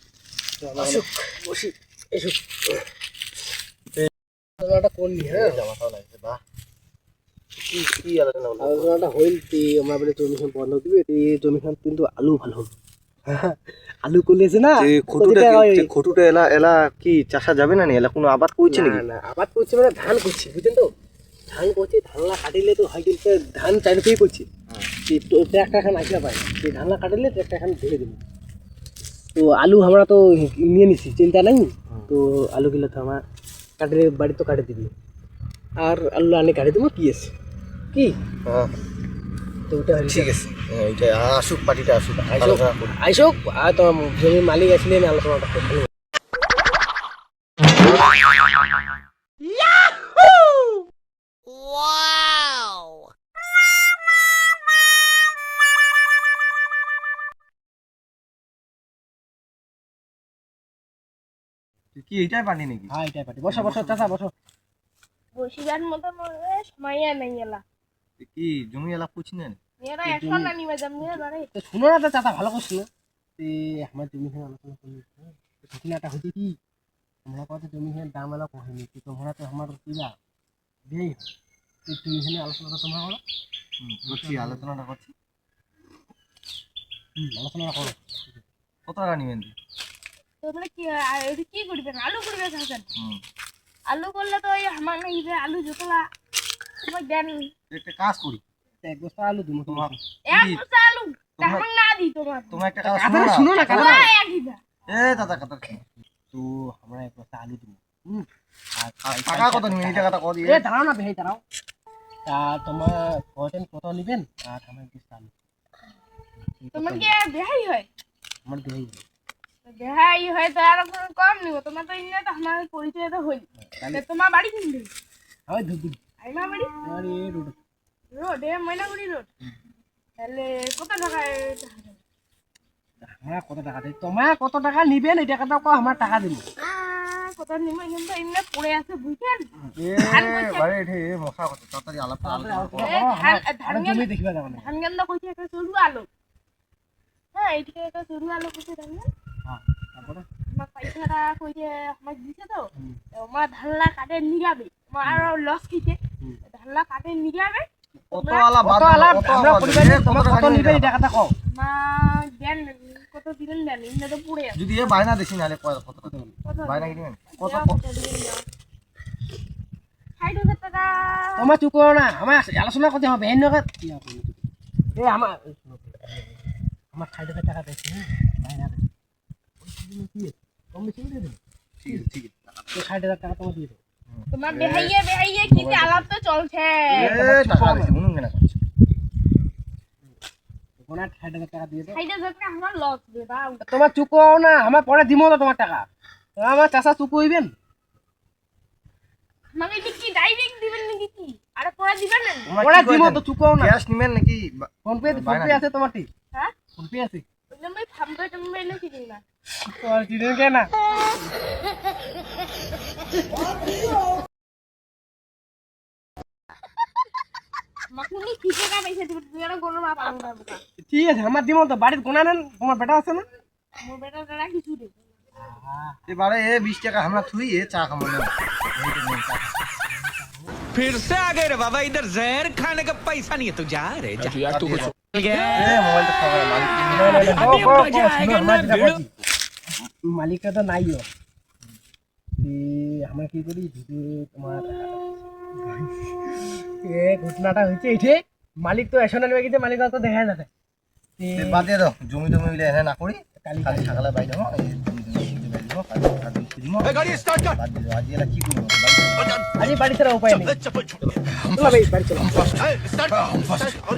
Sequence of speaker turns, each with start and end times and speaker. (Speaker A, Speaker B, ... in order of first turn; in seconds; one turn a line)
Speaker A: 0.6-2.8
Speaker B: 0.8-1.1
Speaker A: 4.6-5.6
Speaker B: 5.2-6.4
Speaker B: 7.6-9.1
Speaker A: 8.6-12.7
Speaker A: 13.3-15.9
Speaker B: 14.8-19.0
Speaker A: 18.6-20.9
Speaker A: 21.5-24.5
Speaker A: 25.1-28.2
Speaker A: 29.4-33.2
Speaker A: 33.8-34.9
Speaker A: 35.8-37.3
Speaker B: 38.5-38.8
Speaker A: 39.7-40.4
Speaker B: 40.0-43.0
Speaker A: 42.3-45.9
Speaker C: 51.8-52.8
Speaker B: 62.0-62.9
Speaker A: 62.9-64.3
Speaker B: 63.5-64.1
Speaker D: 65.3-67.6
Speaker B: 68.2-69.6
Speaker D: 69.8-71.5
Speaker A: 70.0-72.9
Speaker A: 73.4-76.6
Speaker A: 77.2-80.2
Speaker A: 80.9-81.3
Speaker A: 81.9-83.2
Speaker B: 83.8-85.1
Speaker A: 84.1-84.7
Speaker A: 87.2-88.4
Speaker B: 88.9-89.5
Speaker D: 90.4-92.9
Speaker B: 93.0-93.2
Speaker D: 93.9-96.1
Speaker D: 96.8-97.5
Speaker B: 97.7-98.4
Speaker A: 98.8-100.0
Speaker B: 99.7-100.6
Speaker D: 100.3-102.6
Speaker B: 101.4-101.7
Speaker B: 102.5-104.1
Speaker A: 102.8-104.1
Speaker D: 103.6-104.6
Speaker B: 104.9-105.8
Speaker A: 104.9-105.4
Speaker A: 106.3-111.4
Speaker B: 109.0-110.6
Speaker A: 112.3-115.3
Speaker A: 116.7-117.1
Speaker D: 116.7-117.9
Speaker A: 118.5-119.0
Speaker D: 119.7-124.9
Speaker A: 123.7-124.0
Speaker A: 125.5-126.0
Speaker D: 126.2-126.8
Speaker A: 126.8-127.6
Speaker D: 128.1-129.3
Speaker D: 130.2-132.0
Speaker A: 133.1-136.4
Speaker D: 136.6-140.7
Speaker B: 139.8-143.0
Speaker A: 142.2-144.7
Speaker D: 142.8-146.1
Speaker D: 147.3-149.1
Speaker A: 149.5-150.3
Speaker D: 150.5-158.5
Speaker B: 158.1-161.0
Speaker A: 158.6-161.3
Speaker D: 161.5-165.0
Speaker B: 164.6-167.8
Speaker A: 166.1-166.4
Speaker D: 166.4-168.4
Speaker D: 170.2-171.5
Speaker A: 171.4-178.9
Speaker A: 179.6-182.1
Speaker B: 181.8-182.8
Speaker A: 182.7-183.8
Speaker B: 184.1-184.9
Speaker D: 184.3-187.2
Speaker B: 185.5-186.0
Speaker B: 186.9-188.6
Speaker A: 187.0-187.9
Speaker A: 190.8-192.0
Speaker D: 191.9-193.7
Speaker A: 193.6-195.9
Speaker A: 196.4-197.5
Speaker D: 199.5-202.6
Speaker A: 202.5-203.8
Speaker B: 202.5-205.7
Speaker A: 204.8-206.1
Speaker A: 206.7-207.3
Speaker D: 207.5-209.2
Speaker A: 209.6-210.8
Speaker D: 217.9-220.6
Speaker A: 220.8-223.3
Speaker D: 223.8-225.0
Speaker A: 225.4-226.1
Speaker B: 226.1-229.6
Speaker A: 229.9-230.5
Speaker C: 230.7-235.7
Speaker B: 234.4-237.9
Speaker A: 236.9-239.1
Speaker C: 236.9-239.0
Speaker A: 240.0-241.1
Speaker A: 242.4-250.5
Speaker A: 251.2-251.7
Speaker B: 251.4-259.4
Speaker A: 253.4-254.1
Speaker A: 259.6-260.6
Speaker A: 261.3-262.6
Speaker B: 263.4-263.7